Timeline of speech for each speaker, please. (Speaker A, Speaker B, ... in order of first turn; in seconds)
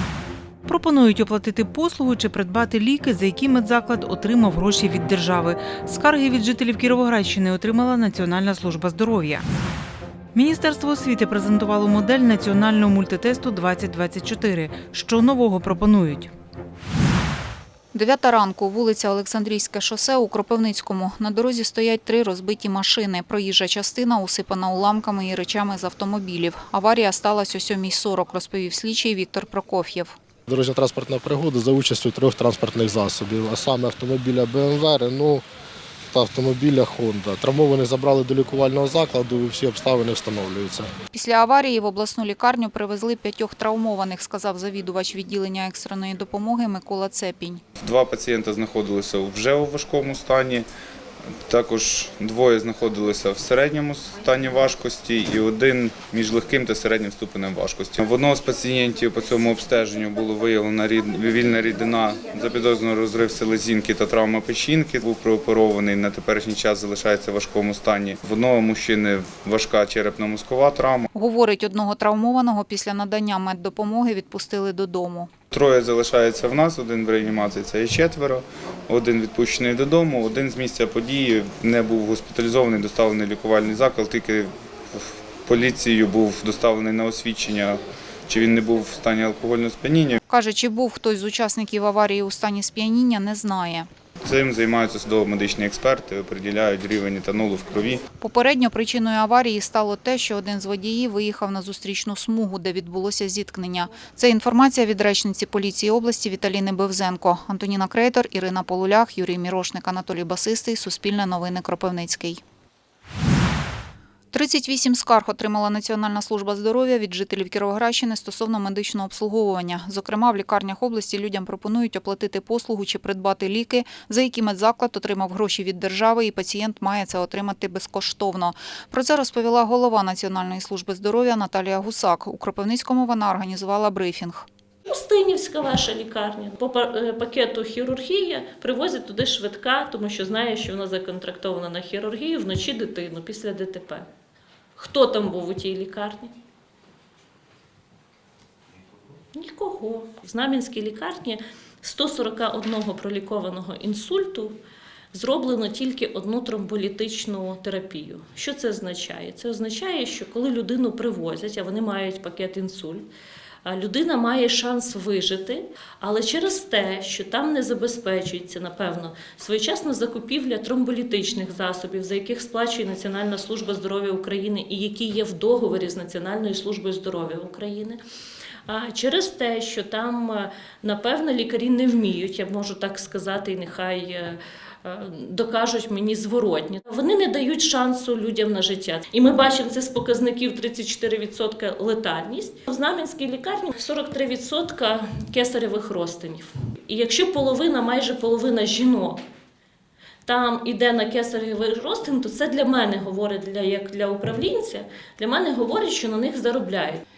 Speaker A: 0.7-9.5, 10.3-16.3
Speaker B: 17.9-30.2, 41.1-47.6, 71.1-75.3, 90.3-93.9, 98.2-112.4, 114.3-134.5
Speaker C: 30.5-35.4, 36.1-40.9
Speaker D: 47.8-50.7, 51.5-71.1, 75.5-90.2, 94.2-98.0
Speaker E: 134.9-144.1, 144.8-146.3, 149.4-154.6, 155.1-163.1, 163.7-178.0, 178.7-199.2, 200.2-207.0